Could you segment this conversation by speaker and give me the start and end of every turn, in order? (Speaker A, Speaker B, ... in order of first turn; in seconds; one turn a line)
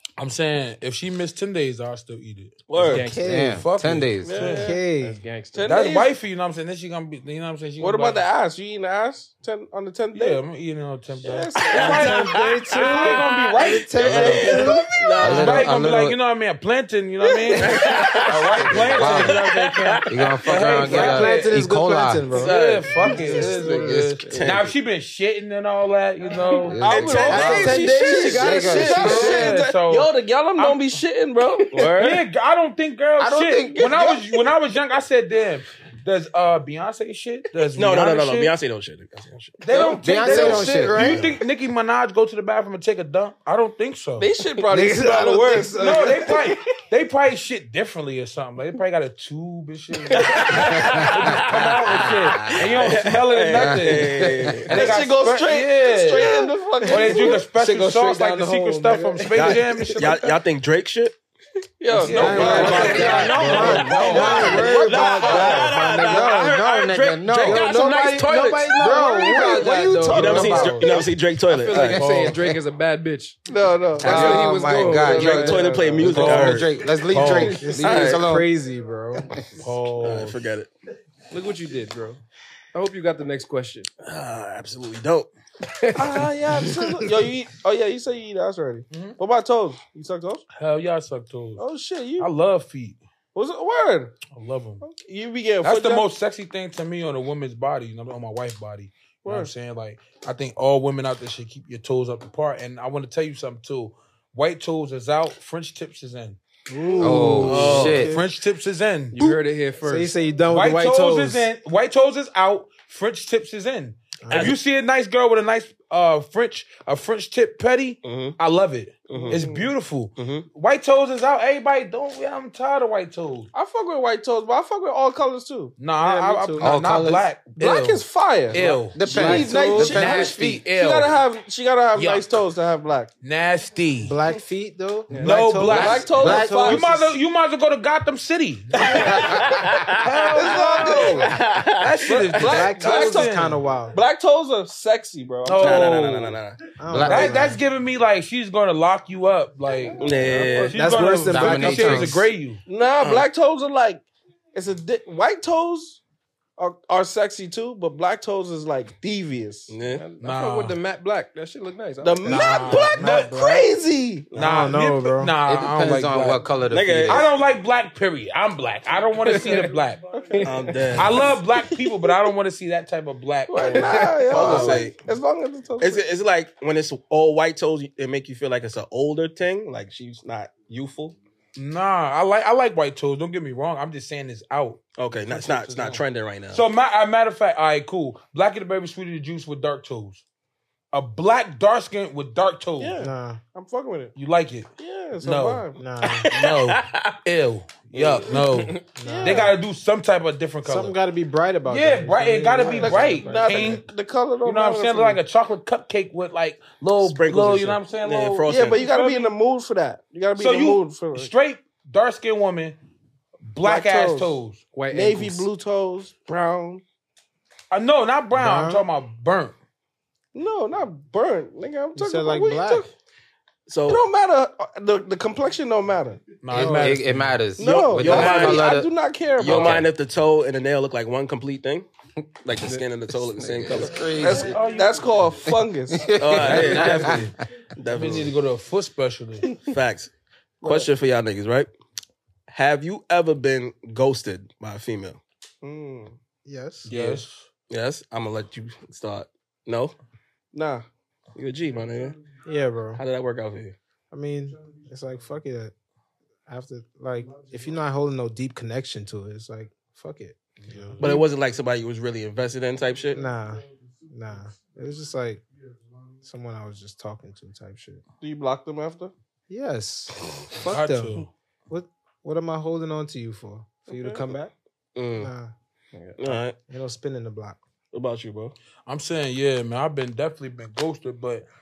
Speaker A: 0.2-4.8
Speaker B: 2.7-3.0
Speaker C: 2.9-3.4
Speaker D: 3.0-3.7
Speaker E: 3.2-4.3
Speaker F: 4.2-4.8
Speaker D: 4.5-5.2
Speaker C: 5.0-5.7
Speaker F: 5.5-6.1
Speaker A: 5.7-8.2
Speaker F: 7.8-10.4
Speaker A: 10.1-14.5
Speaker F: 11.2-13.3
Speaker B: 11.7-13.2
Speaker D: 11.8-15.1
Speaker B: 13.9-15.8
Speaker F: 14.4-14.7
Speaker E: 15.2-16.2
Speaker A: 15.2-21.6
Speaker B: 17.6-20.1
Speaker E: 18.6-19.4
Speaker E: 20.1-22.3
Speaker D: 20.8-24.1
Speaker A: 22.3-27.7
Speaker B: 22.3-23.0
Speaker E: 23.3-24.3
Speaker B: 24.3-24.7
Speaker E: 26.7-27.7
Speaker F: 26.8-32.2
Speaker B: 26.8-28.8
Speaker D: 27.1-29.5
Speaker E: 28.4-29.5
Speaker A: 28.9-30.8
Speaker A: 31.8-38.5
Speaker E: 33.2-33.9
Speaker F: 33.8-34.5
Speaker B: 37.8-39.9
Speaker A: 39.6-44.3
Speaker E: 40.0-41.1
Speaker D: 40.1-41.4
Speaker F: 44.2-46.6
Speaker D: 44.7-46.2
Speaker A: 45.7-60.3
Speaker B: 50.1-51.6
Speaker E: 50.7-52.6
Speaker B: 52.5-54.8
Speaker E: 53.5-54.7
Speaker F: 54.7-58.1
Speaker D: 57.0-60.0
Speaker B: 59.4-61.1
Speaker F: 61.8-63.4
Speaker C: 61.9-63.1
Speaker A: 62.0-64.9
Speaker D: 62.1-66.5
Speaker B: 62.4-63.4
Speaker E: 62.5-64.6
Speaker C: 64.4-66.0
Speaker B: 64.8-68.8
Speaker F: 65.2-65.6
Speaker E: 66.0-67.7
Speaker D: 67.3-70.9
Speaker C: 68.9-70.7
Speaker F: 69.3-69.7
Speaker E: 70.0-71.0
Speaker B: 70.0-72.0
Speaker C: 71.5-76.2
Speaker A: 71.7-72.4
Speaker F: 73.5-74.5
Speaker E: 74.0-78.5
Speaker B: 75.0-76.7
Speaker A: 76.0-77.7
Speaker D: 77.1-79.3
Speaker B: 77.8-78.2
Speaker A: 79.5-80.4
Speaker B: 80.0-80.7
Speaker C: 81.3-82.2
Speaker C: 82.7-83.9
Speaker B: 84.0-85.3
Speaker C: 85.7-86.1
Speaker F: 86.0-90.4
Speaker A: 88.9-89.2
Speaker A: 90.5-91.7
Speaker F: 91.6-92.3
Speaker A: 92.2-93.0
Speaker F: 93.3-94.2
Speaker A: 94.3-94.8
Speaker F: 94.8-96.0
Speaker A: 95.6-106.4
Speaker F: 99.2-99.5
Speaker D: 106.7-108.2
Speaker F: 107.0-107.3
Speaker E: 107.0-108.2
Speaker A: 107.4-109.2
Speaker B: 107.4-108.0
Speaker C: 109.1-110.2
Speaker D: 109.2-111.5
Speaker A: 110.5-123.5
Speaker D: 114.2-114.5
Speaker B: 114.3-114.5
Speaker B: 118.0-118.3
Speaker B: 119.1-119.4
Speaker F: 119.1-119.7
Speaker B: 120.2-120.5
Speaker F: 123.5-125.8
Speaker A: 125.8-131.2
Speaker D: 126.0-126.8
Speaker E: 126.6-127.3
Speaker F: 127.6-133.1
Speaker E: 128.9-130.6
Speaker D: 129.0-129.8
Speaker A: 131.9-132.2
Speaker A: 133.2-134.2
Speaker D: 134.0-137.1
Speaker C: 135.1-135.4
Speaker A: 135.1-143.6
Speaker F: 135.6-136.9
Speaker B: 139.2-140.5
Speaker F: 140.3-141.4
Speaker D: 140.6-141.3
Speaker B: 141.2-142.2
Speaker F: 142.1-143.3
Speaker D: 142.4-144.0
Speaker F: 143.9-146.1
Speaker A: 145.4-146.4
Speaker B: 145.6-146.6
Speaker D: 146.8-147.6
Speaker E: 146.9-147.4
Speaker A: 146.9-152.6
Speaker F: 150.0-150.6
Speaker B: 150.0-150.8
Speaker C: 150.3-150.6
Speaker D: 150.4-152.2
Speaker E: 151.2-152.2
Speaker F: 152.7-156.0
Speaker B: 153.0-153.3
Speaker F: 156.6-159.7
Speaker B: 159.7-160.0
Speaker C: 159.9-162.4
Speaker A: 160.2-160.8
Speaker F: 162.0-164.7
Speaker D: 162.2-163.6
Speaker A: 162.3-163.6
Speaker D: 164.3-165.4
Speaker A: 164.3-166.5
Speaker E: 165.4-167.2
Speaker B: 166.7-167.3
Speaker A: 167.1-170.0
Speaker C: 169.2-169.7
Speaker C: 170.3-170.9
Speaker F: 170.3-171.2
Speaker B: 170.4-171.3
Speaker A: 170.9-174.8
Speaker F: 173.5-176.0
Speaker C: 173.7-174.6
Speaker B: 174.3-175.0
Speaker B: 175.8-181.2
Speaker A: 181.6-190.2
Speaker B: 184.9-186.6
Speaker A: 190.9-193.0
Speaker F: 192.8-194.1
Speaker D: 193.0-193.4
Speaker A: 194.2-194.7
Speaker F: 194.8-195.8
Speaker A: 195.2-195.6
Speaker D: 195.8-196.3
Speaker B: 196.2-197.1
Speaker A: 196.3-201.0
Speaker B: 197.9-198.3
Speaker C: 198.5-198.8
Speaker D: 198.9-199.5
Speaker F: 199.0-199.5
Speaker D: 200.6-203.8
Speaker A: 201.7-203.8
Speaker F: 202.7-205.2
Speaker A: 204.4-209.3
Speaker B: 207.0-208.9
Speaker F: 208.5-211.3
Speaker A: 210.3-212.8
Speaker A: 213.5-214.6
Speaker F: 213.6-214.4
Speaker C: 214.7-215.5
Speaker F: 214.9-216.8
Speaker A: 217.7-219.5
Speaker D: 218.3-218.8
Speaker F: 220.3-222.9
Speaker D: 221.9-222.9
Speaker B: 223.7-224.0
Speaker F: 223.8-226.2
Speaker A: 226.4-227.3
Speaker E: 226.5-228.9
Speaker D: 226.6-226.9
Speaker F: 227.6-229.9
Speaker B: 227.6-228.8
Speaker B: 229.4-231.9
Speaker E: 229.4-229.8
Speaker B: 232.4-234.1
Speaker E: 233.3-234.6
Speaker F: 234.1-236.6
Speaker A: 234.2-235.1
Speaker E: 235.9-237.3
Speaker B: 236.2-238.3
Speaker A: 236.4-237.3
Speaker A: 237.9-239.6
Speaker B: 239.6-240.1
Speaker B: 240.6-241.7
Speaker F: 240.6-240.9
Speaker B: 242.5-245.2
Speaker F: 245.6-246.2
Speaker D: 246.4-246.9
Speaker A: 246.9-247.5
Speaker B: 246.9-249.9
Speaker F: 250.5-250.8
Speaker B: 251.3-252.2
Speaker D: 252.4-253.0
Speaker B: 253.0-253.8
Speaker D: 254.1-255.7
Speaker D: 256.5-261.0
Speaker B: 261.0-263.2
Speaker D: 263.1-265.4
Speaker D: 266.2-268.0
Speaker F: 268.2-269.1
Speaker D: 269.5-274.5
Speaker A: 270.7-271.3
Speaker F: 273.9-274.4
Speaker B: 274.9-275.3
Speaker D: 275.2-275.5
Speaker B: 276.2-276.6
Speaker D: 276.3-277.6
Speaker B: 277.9-278.5
Speaker A: 278.9-281.4